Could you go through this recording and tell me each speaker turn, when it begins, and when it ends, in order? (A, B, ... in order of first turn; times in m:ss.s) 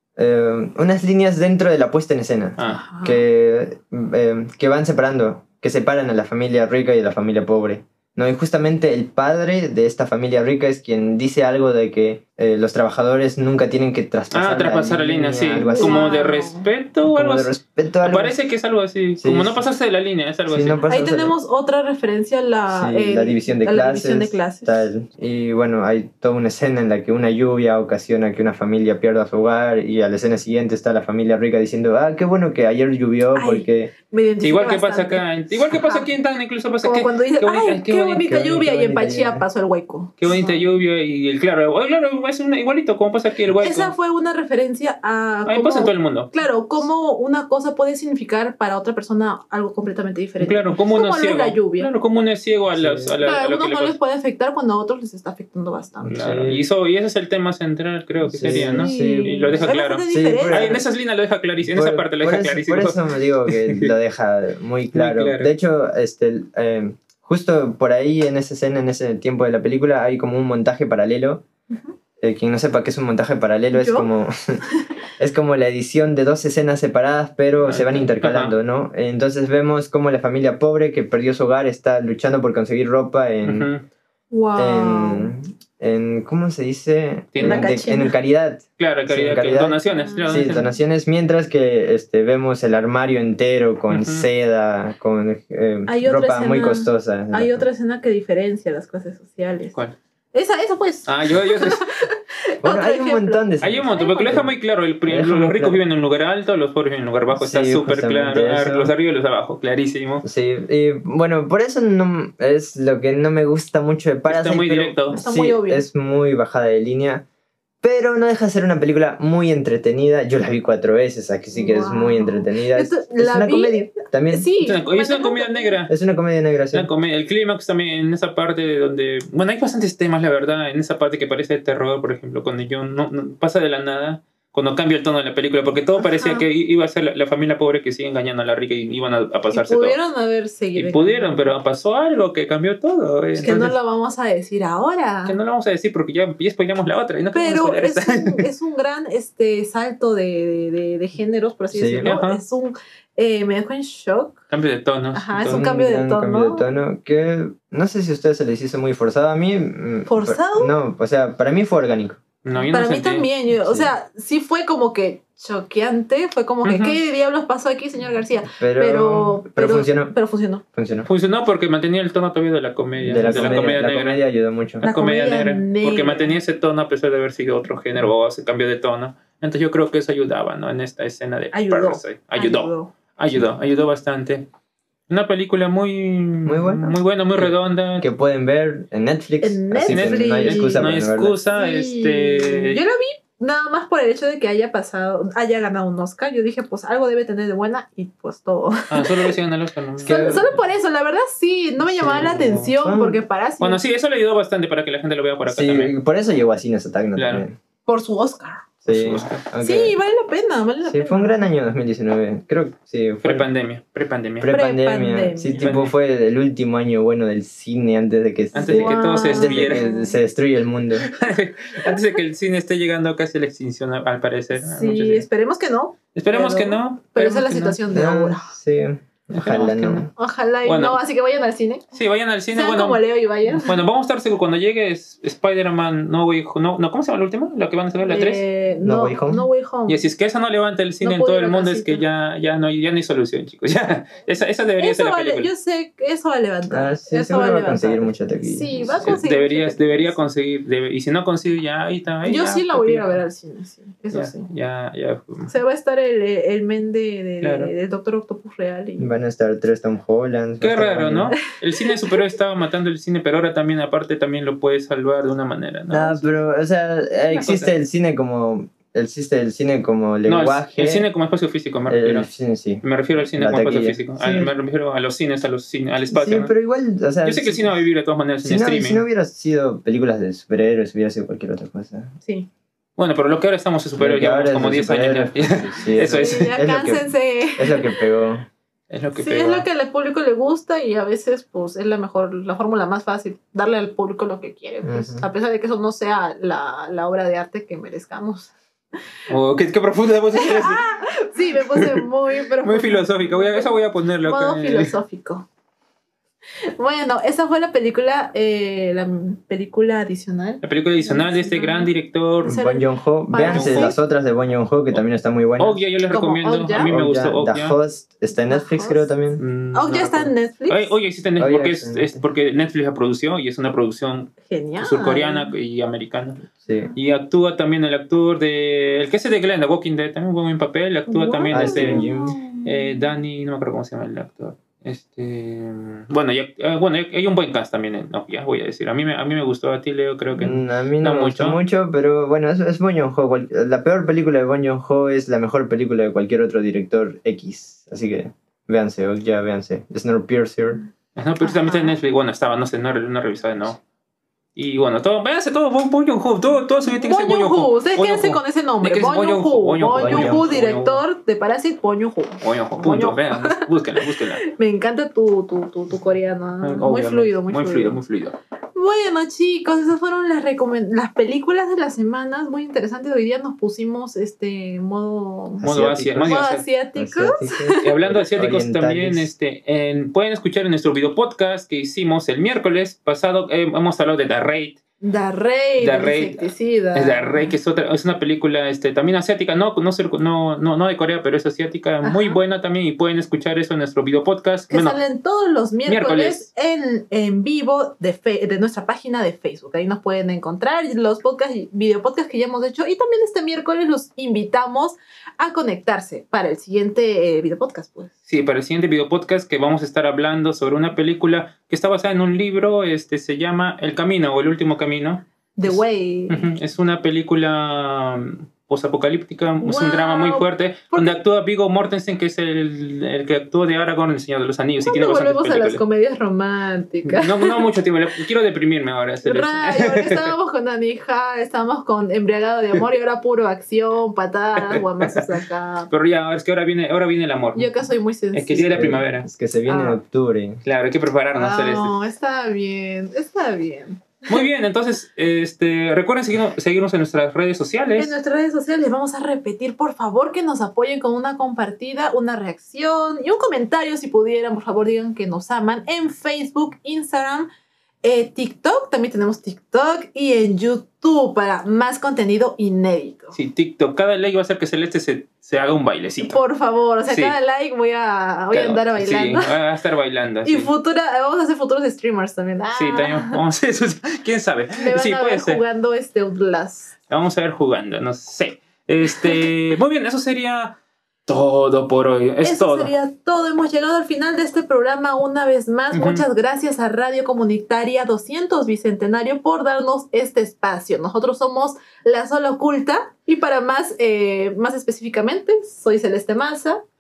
0:00.2-0:16.1 A
0:02.6-0:02.8 B
0:02.6-0:03.2 C
0:14.3-0:20.8 B
0:15.8-0:16.7 C
0:17.1-0:18.4 A
0:19.2-0:19.7 A
0:20.5-0:21.4 A
0:20.9-0:24.9 C
0:22.7-0:33.9 A
0:33.4-0:36.1 C
0:34.4-0:38.3 B
0:36.8-0:40.7 C
0:38.2-0:39.4 A
0:40.2-0:43.9 B
0:43.6-0:51.9 C
0:45.5-0:46.3 B
0:50.4-0:54.0 B
0:52.7-0:53.2 A
0:53.2-0:56.2 C
0:56.0-1:03.9 B
0:56.1-0:56.6 A
0:58.2-1:00.8 A
0:58.4-1:00.8 C
1:01.6-1:11.4 A
1:04.9-1:05.5 B
1:12.2-1:14.6 A
1:13.7-1:14.1 C
1:15.2-1:23.7 A
1:17.6-1:18.6 B
1:23.4-1:23.8 B
1:24.3-1:25.3 C
1:24.6-1:37.7 A
1:27.3-1:27.8 B
1:27.4-1:28.2 C
1:28.8-1:30.7 B
1:29.9-1:30.7 C
1:33.9-1:34.3 B
1:35.9-1:39.8 C
1:40.3-1:44.5 C
1:41.1-1:41.9 B
1:42.6-1:44.6 A
1:43.6-1:50.2 B
1:45.1-1:45.8 A
1:47.3-1:48.9 A
1:50.2-1:57.2 A
1:54.3-1:55.2 B
1:55.1-1:55.8 C
1:57.8-2:04.5 A
2:01.5-2:05.8 C
2:04.6-2:05.9 B
2:05.9-2:06.9 A
2:06.7-2:20.0 B
2:16.0-2:16.5 C
2:19.5-2:21.5 C
2:20.8-2:23.8 B
2:23.4-2:25.4 C
2:25.3-2:28.5 B
2:27.3-2:34.4 C
2:31.7-2:32.1 A
2:32.0-2:32.4 B
2:34.5-2:35.6 B
2:35.1-2:36.6 C
2:35.4-2:42.2 A
2:40.1-2:40.8 C
2:42.4-2:43.3 B
2:42.7-2:50.6 C
2:43.5-2:43.9 A
2:46.6-2:47.0 B
2:48.6-2:50.2 A
2:50.7-2:51.1 A
2:51.1-2:54.2 B
2:53.0-2:54.8 A
2:53.3-2:53.7 C
2:54.8-2:56.3 C
2:54.8-3:04.5 B
3:01.5-3:02.9 C
3:05.1-3:08.1 B
3:06.4-3:11.4 A
3:09.4-3:10.8 C
3:09.8-3:12.8 B
3:11.5-3:19.3 C
3:18.9-3:20.6 B
3:20.0-3:20.5 A
3:20.0-3:23.8 C
3:21.9-3:22.7 B
3:22.1-3:23.2 A
3:23.6-3:25.9 B
3:25.4-3:27.6 A
3:27.2-3:27.4 B
3:27.9-3:28.7 C
3:28.8-3:30.0 A
3:28.9-3:29.4 B
3:29.6-3:31.4 C
3:30.8-3:33.5 A
3:33.2-3:34.5 B
3:34.4-3:41.1 A
3:34.5-3:35.7 C
3:35.6-3:35.9 B
3:38.5-3:39.8 B
3:38.5-3:40.2 C
3:41.0-3:45.3 B
3:44.5-3:48.5 C
3:46.2-3:47.8 B
3:47.9-3:50.1 A
3:49.3-3:50.1 B
3:50.2-3:51.9 C
3:50.6-3:51.0 B
3:51.9-3:58.4 B
3:52.5-3:53.8 C
3:58.1-4:00.1 C
3:58.8-3:59.5 A
3:59.9-4:05.5 B
4:01.0-4:02.0 C
4:04.8-4:10.2 C
4:06.7-4:09.2 A
4:09.0-4:13.2 B
4:12.2-4:14.5 C
4:14.1-4:15.5 B
4:15.5-4:19.1 C
4:17.4-4:17.7 B
4:19.0-4:21.4 A
4:20.6-4:26.3 B
4:21.9-4:22.3 C
4:25.9-4:31.1 A
4:27.3-4:27.7 B
4:30.3-4:32.3 B
4:31.9-4:34.5 A
4:32.8-4:36.5 B
4:36.1-4:37.8 A
4:37.2-4:39.0 B
4:38.4-4:42.1 A
4:43.0-4:46.6 B
4:44.0-4:48.5 A
4:46.1-4:48.0 C
4:48.9-4:49.7 B
4:49.2-4:58.5 C
4:54.8-4:55.3 A
4:59.3-5:00.9 B
5:00.3-5:05.5 C
5:01.5-5:02.1 B
5:02.6-5:04.9 B
5:06.8-5:11.9 C
5:10.6-5:12.6 B
5:12.4-5:14.0 C
5:12.4-5:15.8 A
5:13.4-5:13.9 B
5:15.6-5:17.8 B
5:16.1-5:16.9 C
5:16.8-5:19.4 A
5:18.3-5:19.1 C
5:19.4-5:26.4 B
5:19.7-5:21.0 C
5:21.4-5:22.2 A
5:24.4-5:25.5 C
5:26.6-5:26.9 A
5:27.0-5:32.1 B
5:31.1-5:33.0 C
5:31.5-5:32.4 A
5:32.6-5:41.6 B
5:40.4-5:50.8 A
5:51.2-5:53.8 B
5:51.4-5:51.9 C
5:54.6-6:01.0 B
5:56.8-6:03.7 C
6:00.0-6:00.4 A
6:02.4-6:04.4 B
6:04.4-6:08.0 C
6:06.6-6:08.4 B
6:08.8-6:15.6 C
6:15.6-6:16.3 A
6:15.6-6:16.6 B
6:16.2-6:17.9 C
6:17.0-6:19.3 A
6:17.8-6:24.8 B
6:25.0-6:27.6 C
6:25.8-6:35.0 B
6:32.0-6:32.4 C
6:34.7-6:48.1 C
6:35.9-6:36.5 B
6:48.3-7:05.8 B
6:55.6-6:56.5 C
6:59.6-7:01.2 C
7:04.8-7:07.7 C
7:07.0-7:10.4 B
7:09.2-7:15.9 C
7:14.6-7:15.3 B
7:15.9-7:17.7 B
7:17.6-7:19.0 C
7:18.3-7:19.3 B
7:18.7-7:20.6 A
7:19.7-7:20.0 C
7:20.6-7:21.9 B
7:21.4-7:24.4 C
7:24.3-7:28.1 B
7:28.0-7:37.5 C
7:38.0-7:43.4 C
7:43.3-7:46.4 B
7:46.2-7:49.5 C
7:47.1-7:47.4 B
7:48.5-7:50.7 B
7:50.4-7:53.4 C
7:52.7-7:55.6 B
7:54.8-7:56.9 C
7:57.1-8:02.9 B
7:59.0-7:59.5 C
8:02.4-8:16.8 C
8:05.9-8:06.2 B